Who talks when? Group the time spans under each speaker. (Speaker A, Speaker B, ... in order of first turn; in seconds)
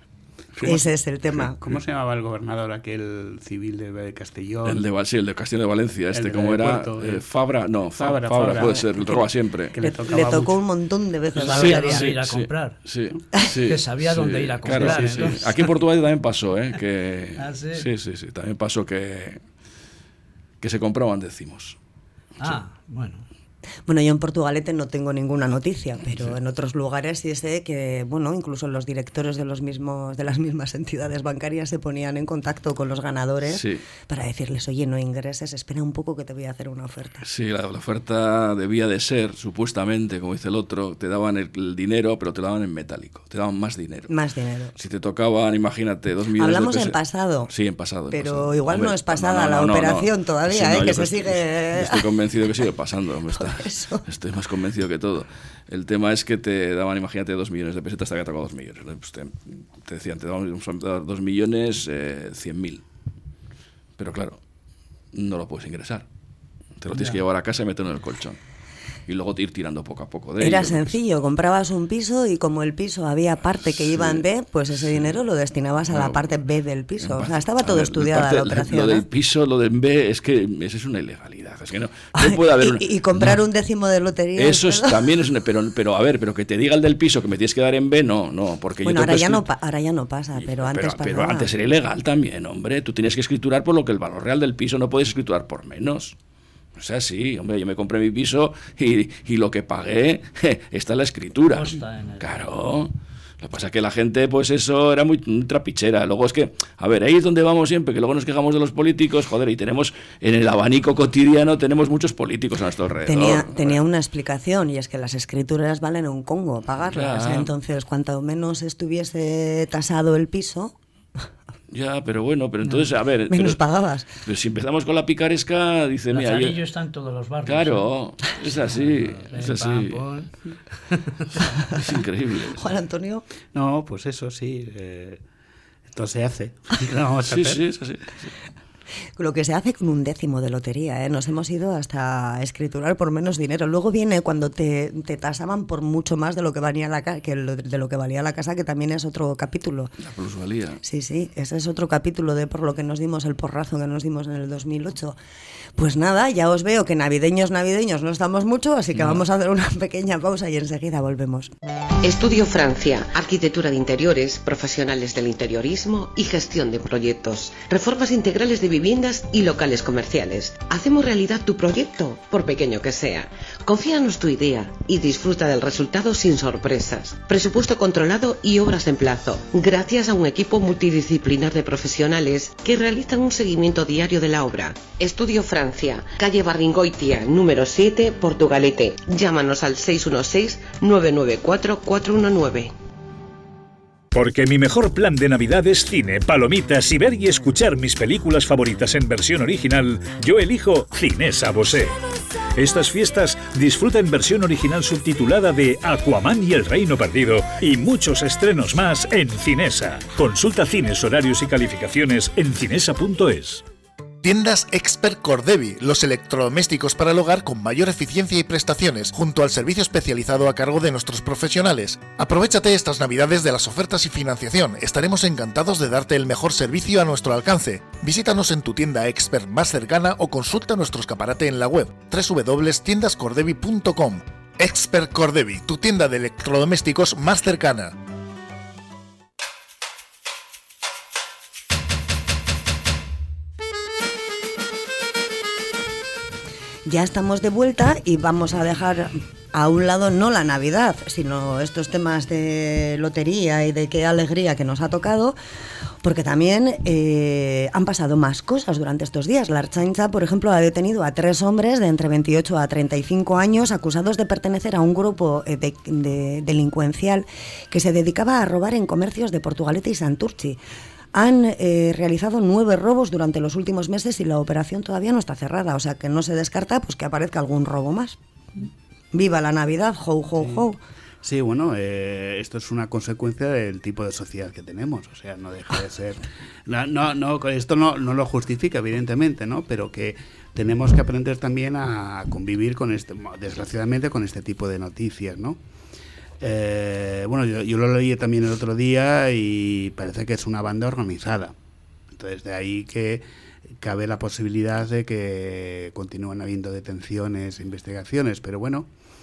Speaker A: 0.7-1.6, 9.8-12.1, 23.9-37.3, 44.1-44.7, 46.4-47.5, 48.1-52.1, 53.3-54.0, 70.4-79.0, 82.2-85.1, 88.8-91.5, 113.1-120.8, 123.3-124.1, 132.6-133.3, 139.2-149.9, 150.8-155.2, 155.8-161.5, 246.8-255.4, 256.0-270.6, 271.1-278.2, 279.1-280.8
Speaker B: 1.6-4.8, 6.1-7.2, 8.0-10.6, 14.8-15.4, 133.5-135.2, 135.9-137.6, 281.2-295.6, 296.4-301.5, 302.2-303.2, 303.8-308.9
Speaker C: 4.7-9.7, 11.3-19.4, 20.6-21.8, 33.5-33.9, 37.2-44.1, 44.8-47.0, 47.5-62.8, 64.0-64.4, 65.1-66.0, 66.8-68.4, 69.1-70.9, 73.7-75.1, 75.9-76.3, 77.0-83.4, 84.4-89.4, 90.4-96.2, 96.8-113.8, 116.9-117.5, 121.7-123.6, 124.2-126.6, 127.5-130.0, 131.7-132.6, 137.3-138.3, 150.0-150.8
Speaker D: 11.4-12.8, 13.7-15.4, 17.4-17.9, 22.4-23.3, 66.9-67.2, 101.5-102.5, 126.1-127.8, 128.4-131.3
Speaker E: 162.0-192.8
Speaker F: 194.1-202.0, 202.6-213.6
Speaker G: 214.2-237.9